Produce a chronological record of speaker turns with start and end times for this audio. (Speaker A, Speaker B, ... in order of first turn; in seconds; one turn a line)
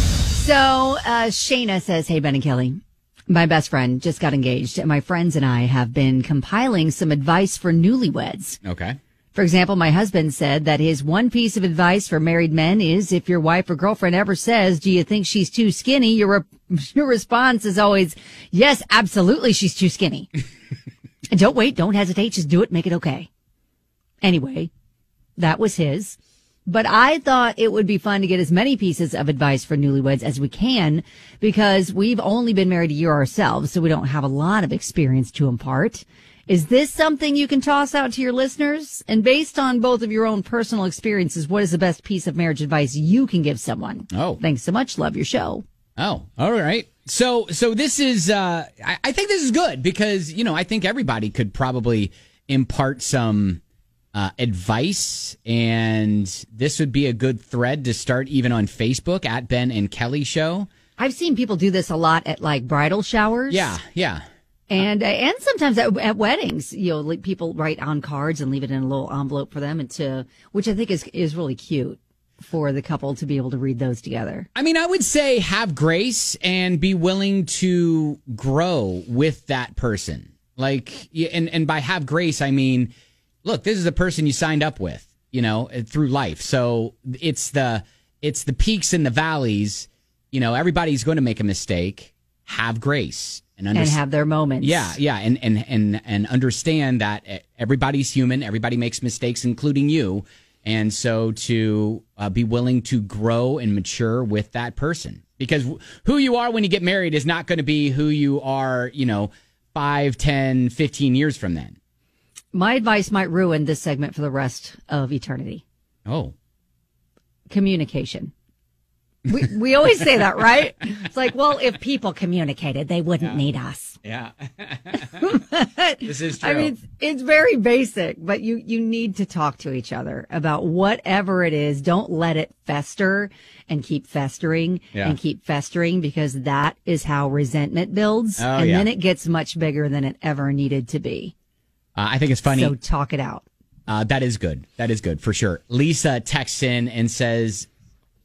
Speaker A: 0.3-8.6
Speaker B: 8.6-9.0
Speaker A: 9.3-20.3
Speaker A: 21.3-23.3
Speaker A: 24.2-24.7
Speaker A: 25.4-45.6
Speaker B: 44.1-44.4
Speaker B: 46.0-53.6
Speaker B: 54.1-60.7
Speaker A: 61.0-63.8
Speaker B: 63.5-64.2
Speaker A: 64.7-74.5
Speaker B: 74.5-82.9
Speaker B: 83.4-94.0
Speaker A: 93.7-95.0
Speaker B: 94.6-111.8
Speaker A: 112.5-115.6
Speaker B: 116.1-116.3
Speaker A: 117.5-118.3
Speaker A: 119.3-124.0
Speaker B: 124.0-125.2
Speaker A: 125.2-141.3
Speaker B: 126.0-126.7
Speaker B: 138.4-138.9
Speaker B: 142.0-142.8
Speaker A: 142.5-143.5
Speaker B: 143.9-147.7